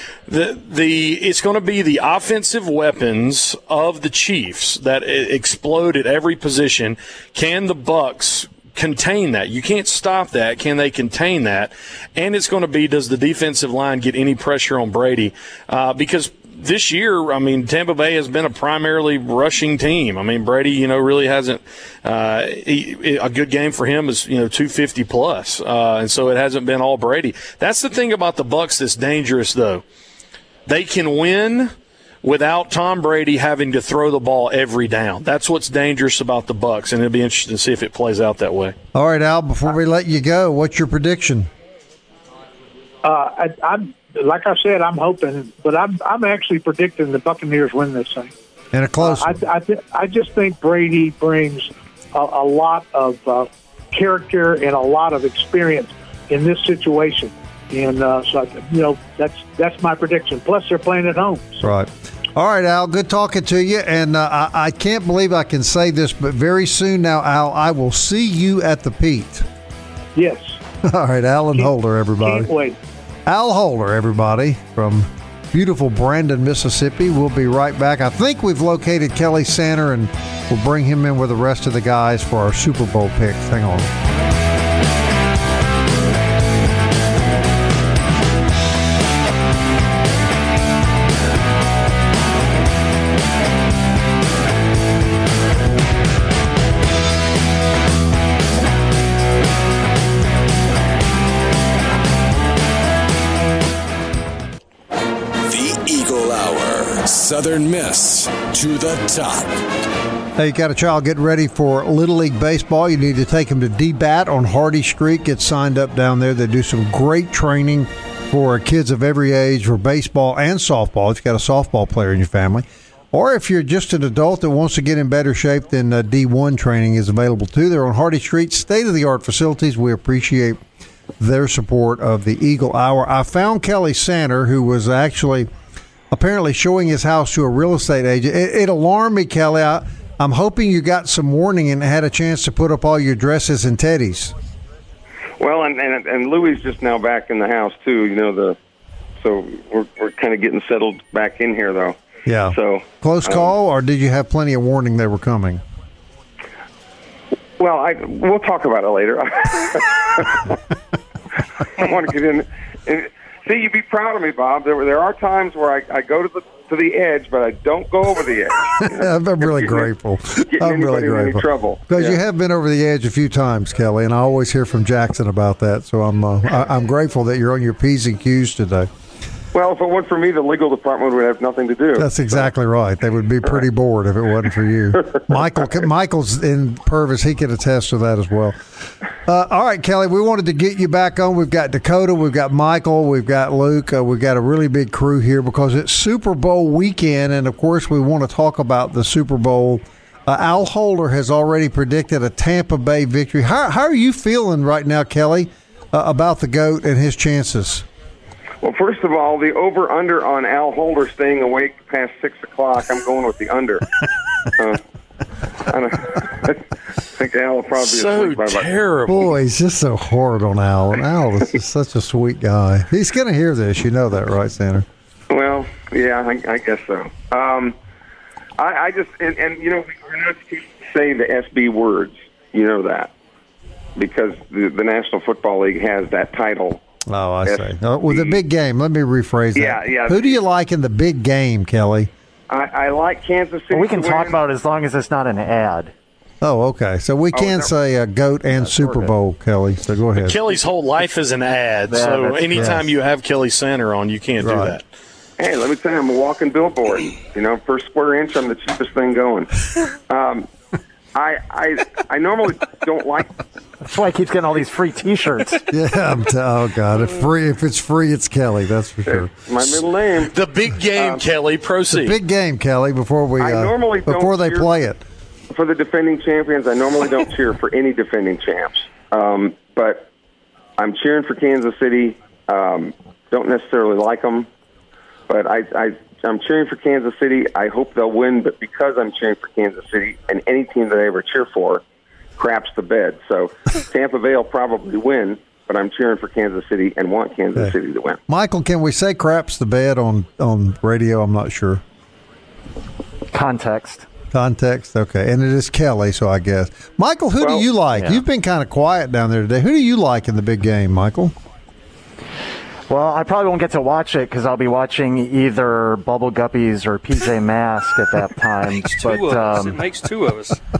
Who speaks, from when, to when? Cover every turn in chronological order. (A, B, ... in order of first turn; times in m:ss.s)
0:00.3-0:29.8 A
0:30.7-0:38.8 A
0:38.9-0:41.5 B
0:43.0-0:48.3 C
0:48.7-0:49.4 B
0:49.0-1:01.6 C
1:01.6-1:09.4 B
1:10.1-1:10.6 C
1:10.8-1:12.5 B
1:11.5-1:12.8 C
1:13.2-1:23.9 B
1:45.4-1:49.6 D
1:50.4-2:10.6 B
2:11.2-2:15.5 B
2:16.1-2:24.3 B
2:25.4-2:28.6 E
2:29.2-2:32.0 E
2:32.2-2:35.6 B
2:32.5-2:33.5 E
2:37.6-2:40.6 E
2:41.7-2:49.9 E
2:48.8-2:58.9 B
2:50.5-2:52.2 E
2:59.5-3:02.5 E
3:02.0-3:08.6 B
3:09.2-3:27.8 B
3:28.6-3:33.9 E
3:35.6-3:36.6 E
3:37.2-3:38.8 E
3:37.8-3:39.3 A
3:39.1-3:44.8 B
3:45.3-3:47.8 E
3:48.6-3:53.1 E
3:54.0-3:56.8 E
3:57.0-4:02.1 B
3:57.4-3:58.4 E
3:59.5-4:00.4 E
4:02.5-4:04.4 E
4:03.7-4:05.9 F
4:06.4-4:10.4 B
4:07.3-4:07.7 E
4:08.5-4:09.1 E
4:10.2-4:14.8 A
4:11.9-4:12.8 F
4:12.5-4:12.8 B
4:14.4-4:14.8 B
4:15.4-4:19.5 E
4:20.1-4:20.5 E
4:21.1-4:23.3 E
4:23.9-4:25.6 F
4:25.7-4:29.3 B
4:29.0-4:30.3 E
4:29.7-4:32.2 A
4:31.0-4:31.2 E
4:31.9-4:35.0 B
4:33.4-4:34.7 E
4:35.5-4:40.1 E
4:40.8-4:44.5 E
4:45.3-4:51.8 E
4:52.4-4:58.2 E
4:58.3-5:01.8 B
5:03.3-5:04.0 F
5:04.3-5:11.3 B
5:07.4-5:07.7 E
5:07.9-5:08.2 F
5:12.9-5:19.8 F
5:18.7-5:20.6 G